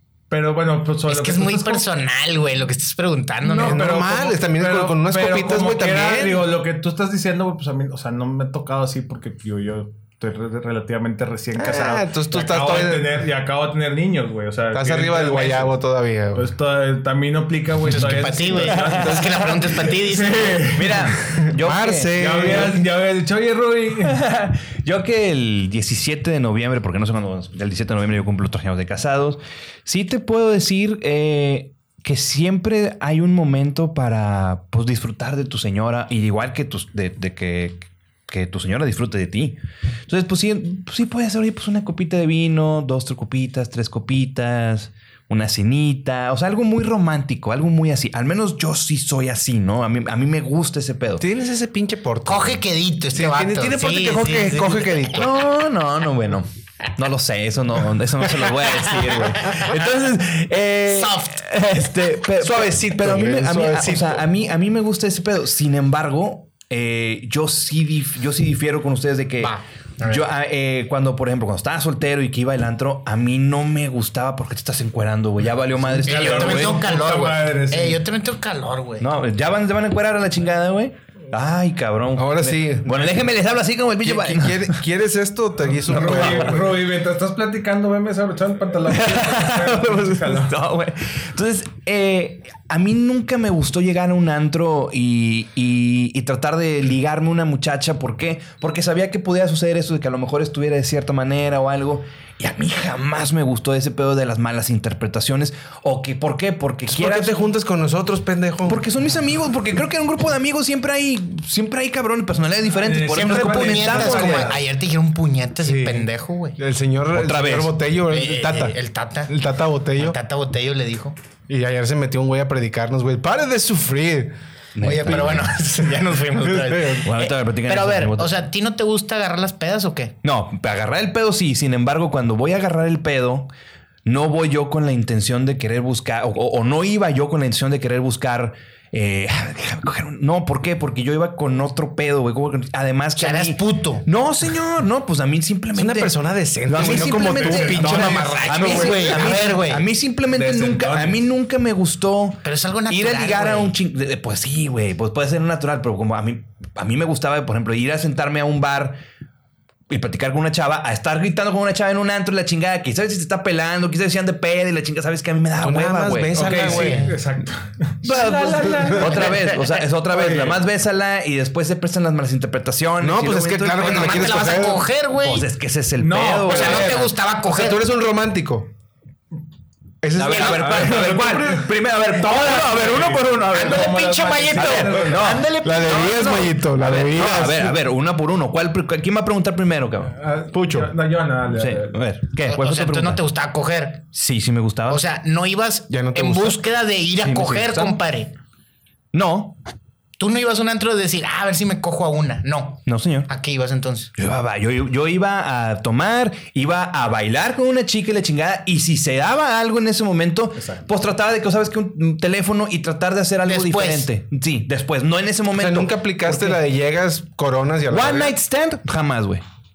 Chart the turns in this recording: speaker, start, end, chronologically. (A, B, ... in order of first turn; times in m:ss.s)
0:00.3-0:01.8 A
0:01.1-0:03.8 B
0:03.4-0:06.4 C
0:03.5-0:15.7 A
0:11.6-0:13.2 C
0:14.7-0:16.5 C
0:16.3-0:21.2 A
0:17.9-0:20.7 B
0:18.8-0:19.2 D
0:18.8-0:19.4 C
0:20.7-0:22.7 D
0:21.4-0:22.8 C
0:22.2-0:24.2 A
0:24.0-0:51.2 D
0:51.2-0:55.3 C
0:52.3-0:54.8 B
0:54.2-1:16.8 D
0:58.9-0:59.7 B
1:00.9-1:01.4 B
1:02.4-1:04.3 C
1:09.4-1:10.2 B
1:15.8-1:18.0 A
1:16.0-1:19.1 B
1:19.0-1:24.8 D
1:22.2-1:23.3 C
1:24.0-1:26.7 C
1:25.8-1:30.6 A
1:26.0-1:26.6 D
1:28.9-1:47.5 D
1:46.9-1:48.9 C
1:48.7-1:54.6 D
1:52.7-1:54.6 A
1:53.2-1:54.5 C
1:53.2-1:56.6 B
1:55.7-1:56.0 C
1:56.6-1:58.8 C
1:57.1-1:57.8 D
1:58.1-1:59.4 B
1:59.3-2:00.2 C
2:00.0-2:01.2 B
2:01.5-2:04.4 C
2:04.8-2:05.5 D
2:04.8-2:10.2 B
2:06.4-2:07.1 C
2:07.0-2:08.3 D
2:10.2-2:13.5 D
2:14.0-2:26.1 D
2:23.2-2:24.1 B
2:25.7-2:29.4 C
2:26.7-2:39.0 D
2:26.8-2:28.9 A
2:27.9-2:29.8 B
2:30.3-2:31.2 A
2:32.4-2:33.8 B
2:39.9-2:46.3 D
2:45.6-2:47.2 C
2:46.3-2:49.5 A
2:46.4-2:47.2 B
2:48.0-2:54.6 D
2:48.5-2:49.2 C
2:49.2-2:49.7 B
2:50.1-2:50.6 A
2:53.0-2:54.9 C
2:53.7-2:55.5 B
2:55.1-2:57.1 D
2:56.0-2:57.1 A
2:56.5-2:57.8 B
2:57.5-2:58.7 C
3:00.0-3:01.4 C
3:00.1-3:03.9 D
3:00.4-3:05.4 A
3:03.5-3:06.4 B
3:04.6-3:10.2 D
3:05.6-3:07.8 C
3:10.1-3:12.0 A
3:10.5-3:10.9 C
3:11.5-3:13.2 D
3:12.4-3:14.0 B
3:14.1-3:15.0 D
3:14.9-3:18.3 B
3:15.9-3:16.6 C
3:17.2-3:18.0 D
3:19.1-3:19.6 D
3:20.2-3:24.1 B
3:22.9-3:23.3 D
3:24.2-3:36.6 D
3:30.6-3:30.9 A
3:33.4-3:34.1 B
3:35.5-3:38.4 C
3:37.9-3:39.4 D